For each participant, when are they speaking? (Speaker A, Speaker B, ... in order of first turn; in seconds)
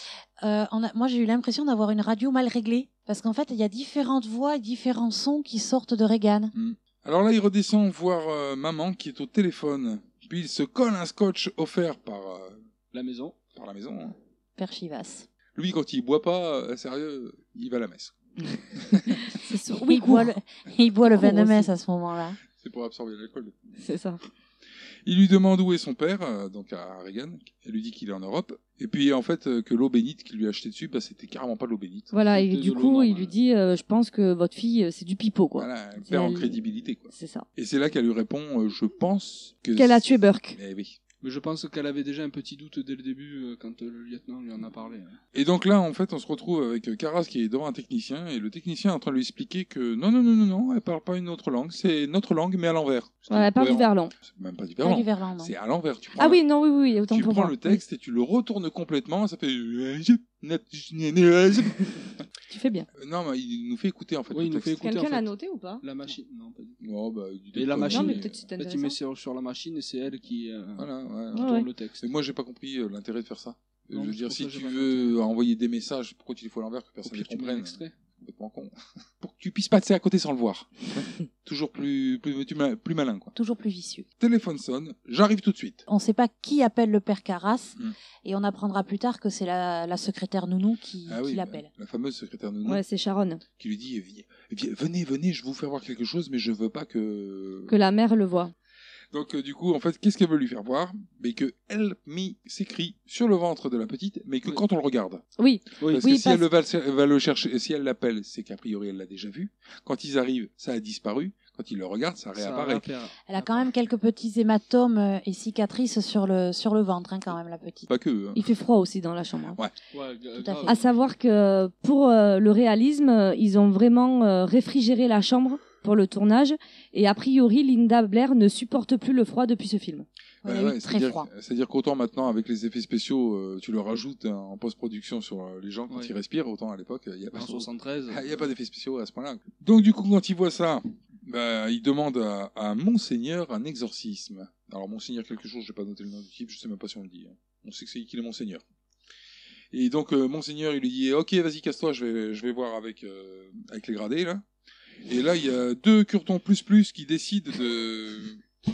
Speaker A: 0.4-6.5, 14.6-15.3, 19.7-22.4, 54.8-55.5, 83.3-84.1, 85.9-91.7, 113.3-117.9, 120.4-120.9, 130.4-131.3
Speaker B: 6.5-12.6, 13.6-14.2, 15.6-18.1, 18.8-19.2, 22.5-23.6, 25.1-32.1, 35.6-41.0, 45.3-56.4, 57.1-62.0, 63.0-64.9, 66.8-68.4, 70.8-71.5, 72.0-83.3, 84.2-85.8, 91.1-92.8, 93.6-97.7, 99.1-105.2, 105.8-112.9, 117.9-118.5, 130.4-148.6, 149.7-154.4, 155.1-158.4
Speaker C: 12.9-13.4, 32.3-33.3, 41.2-45.2, 64.3-65.3, 65.8-66.8, 67.5-72.1, 73.9-75.2, 77.0-77.9, 112.4-113.7, 119.9-120.8, 137.3-138.4
Speaker D: 19.1-20.3, 21.1-21.7, 23.8-24.2, 32.1-36.6, 37.1-37.5, 39.8-40.6, 53.3-54.1, 56.2-57.8, 62.5-62.9, 64.8-65.8, 67.9-69.0, 71.3-71.7, 92.7-93.4, 97.7-98.5, 105.4-106.5, 118.4-119.6, 120.7-130.1